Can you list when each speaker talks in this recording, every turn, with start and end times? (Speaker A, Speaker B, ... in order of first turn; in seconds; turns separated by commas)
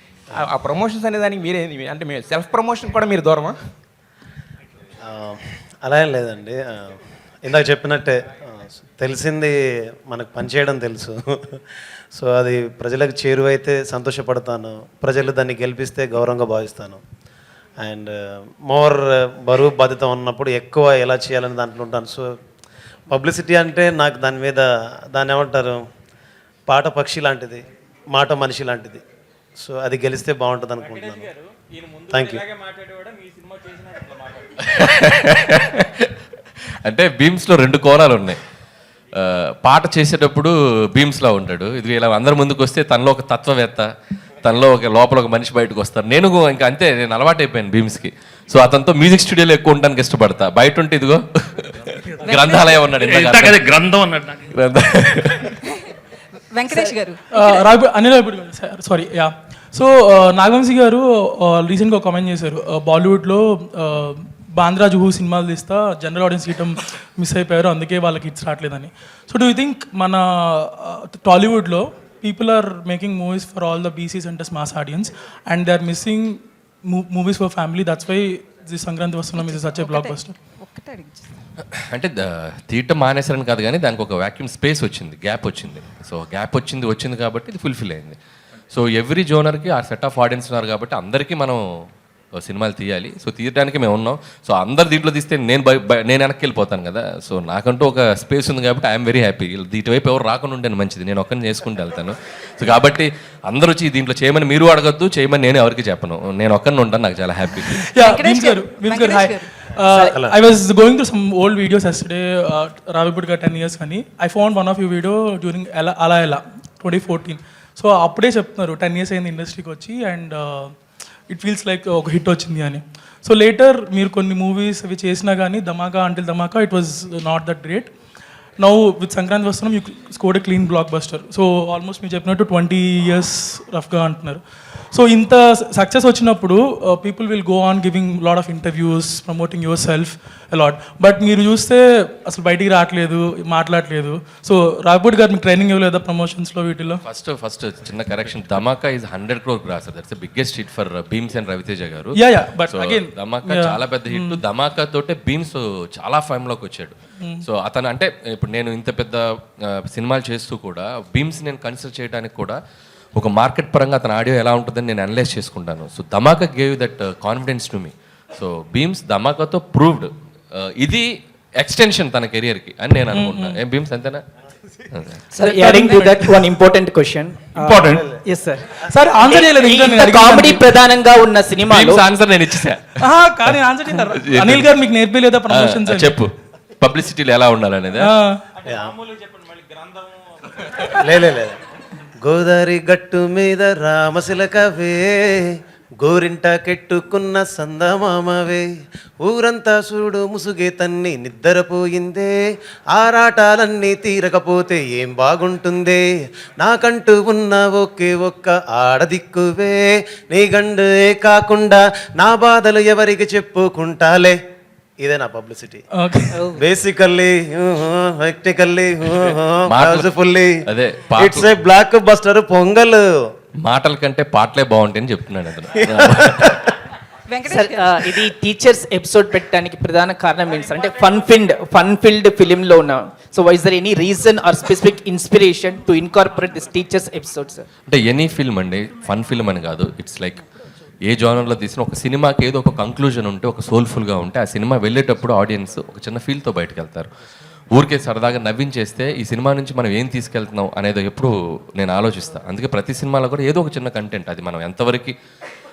Speaker A: 0.4-3.6, Speaker B: 5.1-9.6, Speaker B: 10.1-11.6, Speaker B: 12.2-17.0, Speaker B: 17.8-22.3, Speaker B: 23.1-25.8, Speaker B: 26.7-27.6, Speaker B: 28.1-29.0, Speaker B: 29.6-31.3, Speaker B: 32.1-32.5, Speaker C: 34.6-36.1, Speaker C: 36.9-38.4, Speaker C: 39.2-43.9, Speaker C: 44.4-53.6, Speaker D: 52.2-52.8, Speaker E: 53.0-54.5, Speaker C: 54.6-55.5, Speaker D: 56.5-57.6, Speaker F: 57.3-80.3, Speaker D: 79.4-81.3, Speaker C: 81.7-88.2, Speaker C: 88.7-91.6, Speaker C: 92.4-107.8, Speaker F: 107.7-120.7, Speaker D: 108.0-109.5, Speaker B: 109.9-110.3, Speaker F: 121.3-127.9, Speaker F: 128.6-134.4, Speaker F: 134.9-147.0, Speaker C: 147.1-152.2, Speaker F: 152.2-154.4, Speaker C: 152.7-159.2, Speaker C: 159.9-162.6, Speaker C: 163.2-171.1, Speaker C: 171.6-174.2, Speaker F: 173.1-173.6, Speaker C: 174.9-175.2, Speaker G: 175.3-177.8, Speaker F: 175.4-176.5, Speaker E: 177.6-178.2, Speaker G: 178.3-178.6, Speaker F: 178.8-180.7, Speaker G: 179.2-182.1, Speaker C: 181.7-182.8, Speaker F: 183.0-186.3, Speaker C: 183.5-184.7, Speaker C: 185.5-188.1, Speaker F: 188.0-188.4, Speaker B: 188.6-189.0, Speaker B: 190.9-191.6, Speaker B: 192.2-198.7, Speaker B: 199.2-202.4, Speaker B: 202.9-206.0, Speaker B: 206.6-214.4, Speaker B: 215.0-215.8, Speaker F: 215.9-216.5, Speaker B: 216.4-220.6, Speaker C: 219.7-220.1, Speaker C: 220.7-221.5, Speaker B: 221.2-223.0, Speaker C: 223.6-226.5, Speaker B: 225.8-226.7, Speaker D: 227.3-228.2, Speaker G: 227.5-237.7, Speaker C: 237.9-240.4, Speaker C: 241.1-247.1, Speaker C: 247.7-255.2